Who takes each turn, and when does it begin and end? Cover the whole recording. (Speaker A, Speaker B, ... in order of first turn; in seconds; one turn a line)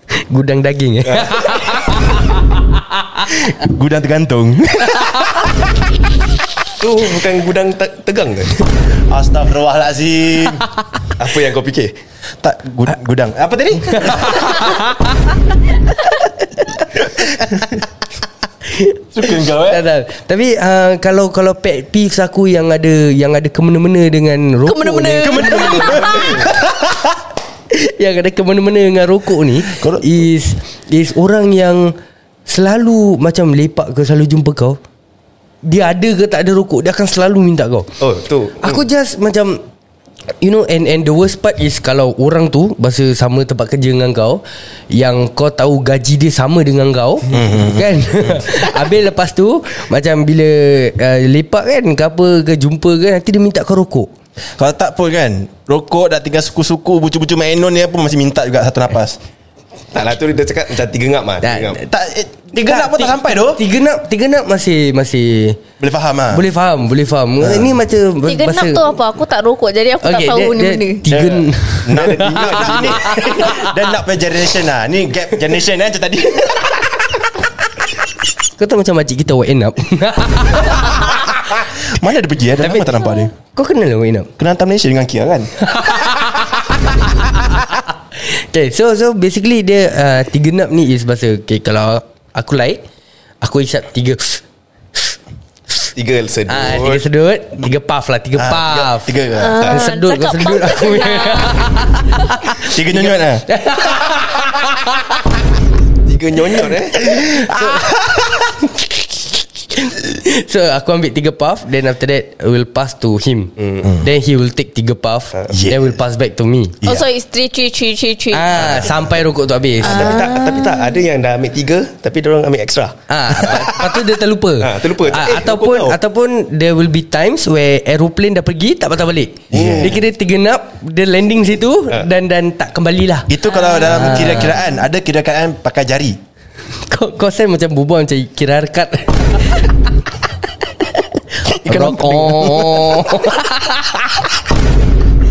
Speaker A: 0.3-2.3
Speaker B: 1.1-1.8
Speaker C: 3.3-5.7
Speaker B: 6.8-8.5
Speaker C: 9.1-10.7
Speaker B: 11.2-11.9
Speaker C: 12.4-14.6
Speaker A: 13.9-15.2
Speaker C: 17.3-17.7
Speaker A: 18.7-26.3
Speaker C: 19.1-19.8
Speaker D: 24.7-26.5
Speaker C: 25.2-27.2
Speaker A: 27.7-32.0
Speaker C: 29.6-30.3
Speaker A: 32.5-34.8
Speaker A: 35.6-37.9
Speaker B: 38.0-38.8
Speaker A: 38.6-39.6
Speaker A: 40.4-54.1
Speaker C: 47.3-48.6
Speaker C: 54.6-59.2
Speaker B: 59.9-61.8
Speaker A: 61.4-61.8
Speaker C: 61.8-63.6
Speaker A: 62.5-65.6
Speaker C: 65.8-66.4
Speaker A: 66.3-68.9
Speaker C: 67.4-67.7
Speaker D: 68.3-71.0
Speaker A: 70.0-73.7
Speaker C: 71.1-77.2
Speaker B: 72.0-73.0
Speaker A: 78.6-80.9
Speaker C: 80.8-83.3
Speaker A: 82.6-84.3
Speaker C: 84.4-85.5
Speaker A: 85.6-86.8
Speaker A: 88.2-92.8
Speaker A: 93.4-94.4
Speaker B: 96.0-97.0
Speaker A: 96.5-105.2
Speaker C: 98.4-99.8
Speaker D: 99.4-101.7
Speaker C: 102.6-103.5
Speaker B: 106.0-107.1
Speaker C: 107.0-108.5
Speaker A: 107.4-107.9
Speaker A: 109.7-116.8
Speaker B: 113.6-113.9
Speaker C: 115.5-115.8
Speaker D: 116.8-118.6
Speaker A: 118.3-120.3
Speaker B: 118.6-119.1
Speaker D: 119.8-120.9
Speaker B: 119.8-123.9
Speaker A: 123.1-134.6
Speaker B: 124.6-126.0
Speaker C: 129.5-130.0
Speaker B: 129.5-130.0
Speaker C: 133.3-136.2
Speaker A: 136.9-139.7
Speaker A: 141.3-144.2
Speaker C: 141.5-143.2